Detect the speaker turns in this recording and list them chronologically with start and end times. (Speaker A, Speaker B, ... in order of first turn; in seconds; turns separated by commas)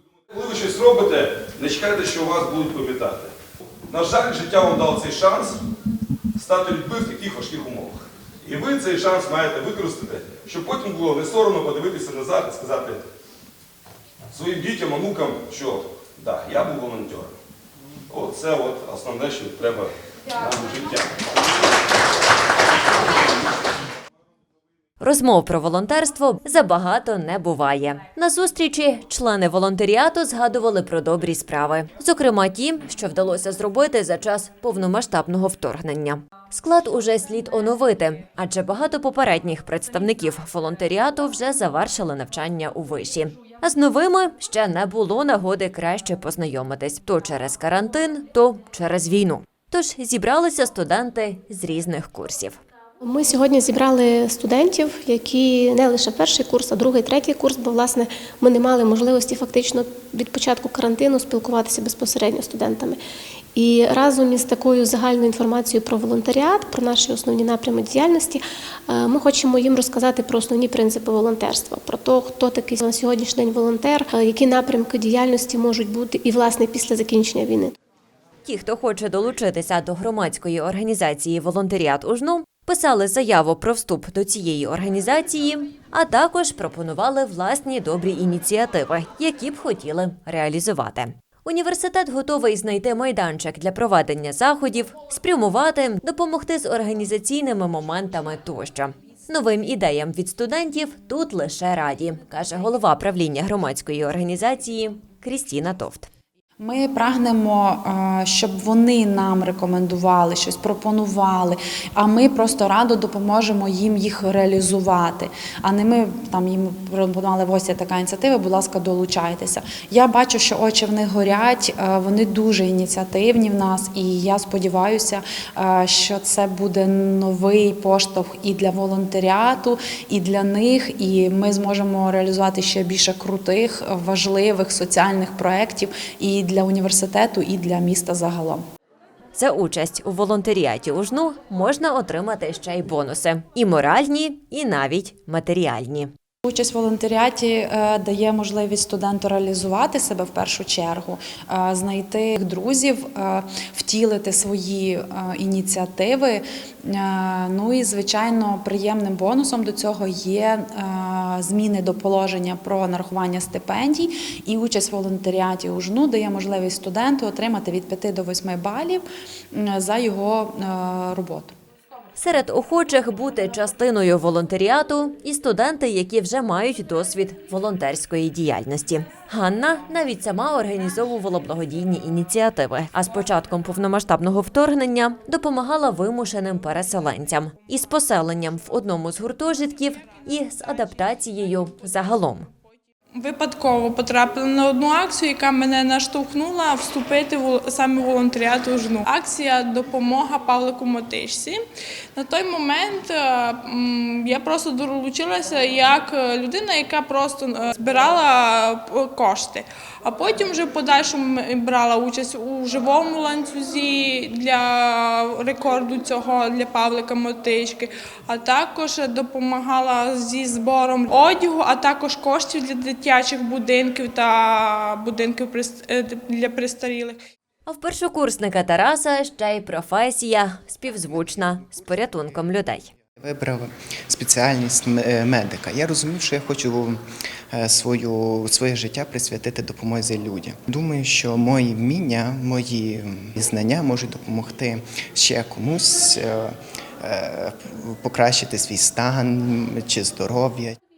Speaker A: 0.3-3.3, Speaker A: 3.9-5.6, Speaker A: 6.4-13.0, Speaker A: 14.3-17.4, Speaker A: 18.1-21.2, Speaker B: 25.0-52.6, Speaker C: 53.0-63.0, Speaker C: 63.5-77.7, Speaker B: 78.4-106.1, Speaker D: 106.6-138.6, Speaker B: 139.3-146.1, Speaker D: 146.4-171.5, Speaker B: 172.2-192.5, Speaker E: 193.2-201.6, Speaker E: 202.2-227.2, Speaker B: 227.7-232.9, Speaker F: 233.2-250.7